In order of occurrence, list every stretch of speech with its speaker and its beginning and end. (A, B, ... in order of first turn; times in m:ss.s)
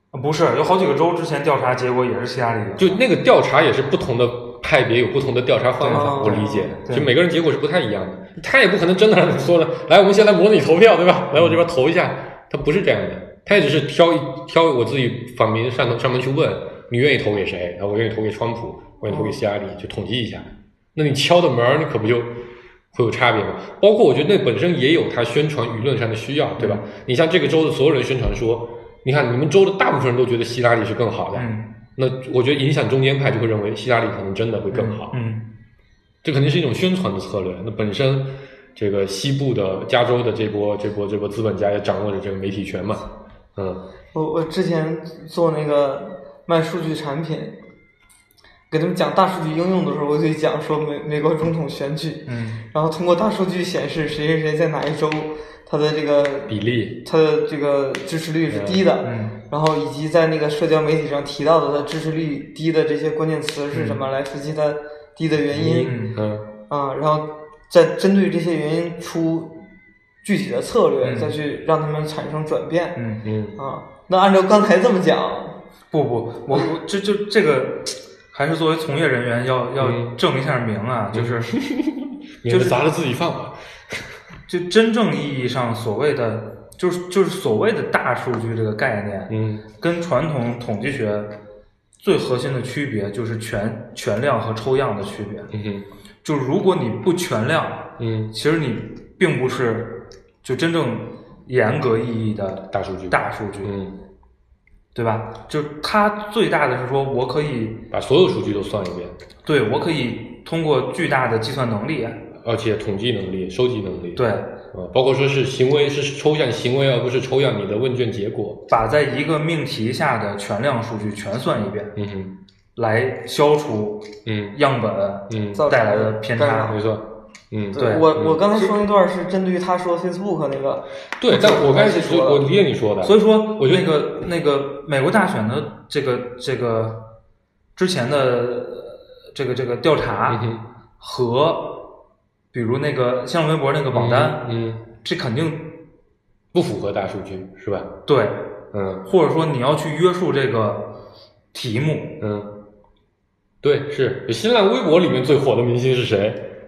0:00.1-0:03.0 A
0:02.8-0:22.4 B
0:05.8-0:07.1 A
0:05.9-0:06.7 C
0:11.3-0:11.6 A
0:19.1-0:19.4 C
0:22.9-0:35.2 B
0:26.6-0:26.8 A
0:31.4-0:31.7 A
0:34.7-0:35.5 A
0:36.2-0:43.8 B
0:44.1-0:47.6 C
0:48.7-1:05.9 C
0:52.3-0:52.6 A
0:56.5-0:57.0 B
0:58.5-0:58.9 B
0:59.0-0:59.4 A
1:03.7-1:04.0 A
1:05.5-1:06.5 B
1:05.6-1:06.2 A
1:06.7-1:09.6 C
1:10.2-1:13.0 C
1:11.0-1:11.4 A
1:13.0-1:13.2 A
1:13.2-1:13.6 B
1:13.6-1:15.6 C
1:15.9-1:21.5 A
1:19.8-1:20.1 B
1:21.1-1:24.1 B
1:22.5-1:22.8 A
1:24.5-1:31.3 A
1:29.3-1:29.6 B
1:32.0-1:35.5 A
1:35.5-1:35.9 B
1:36.2-1:43.7 A
1:38.0-1:38.3 B
1:42.7-1:44.0 B
1:45.0-1:47.9 A
1:47.9-1:49.2 B
1:49.4-1:52.2 A
1:52.4-1:58.6 B
1:54.2-1:54.5 A
1:58.7-2:01.9 A
2:02.0-2:02.4 B
2:02.8-2:06.8 A
2:04.3-2:04.6 B
2:05.3-2:05.6 B
2:05.6-2:06.8 C
2:06.7-2:08.4 B
2:07.7-2:08.8 A
2:07.7-2:12.4 C
2:11.2-2:14.0 B
2:11.3-2:11.7 A
2:13.0-2:17.1 A
2:17.8-2:20.4 A
2:20.3-2:20.7 B
2:21.0-2:21.9 A
2:22.5-2:24.4 A
2:23.9-2:24.8 B
2:25.0-2:25.8 A
2:26.5-2:27.9 B
2:28.1-2:28.4 A
2:28.7-2:29.0 B
2:29.0-2:30.9 A
2:31.5-2:32.2 A
2:32.2-2:32.5 B
2:33.6-2:36.5 B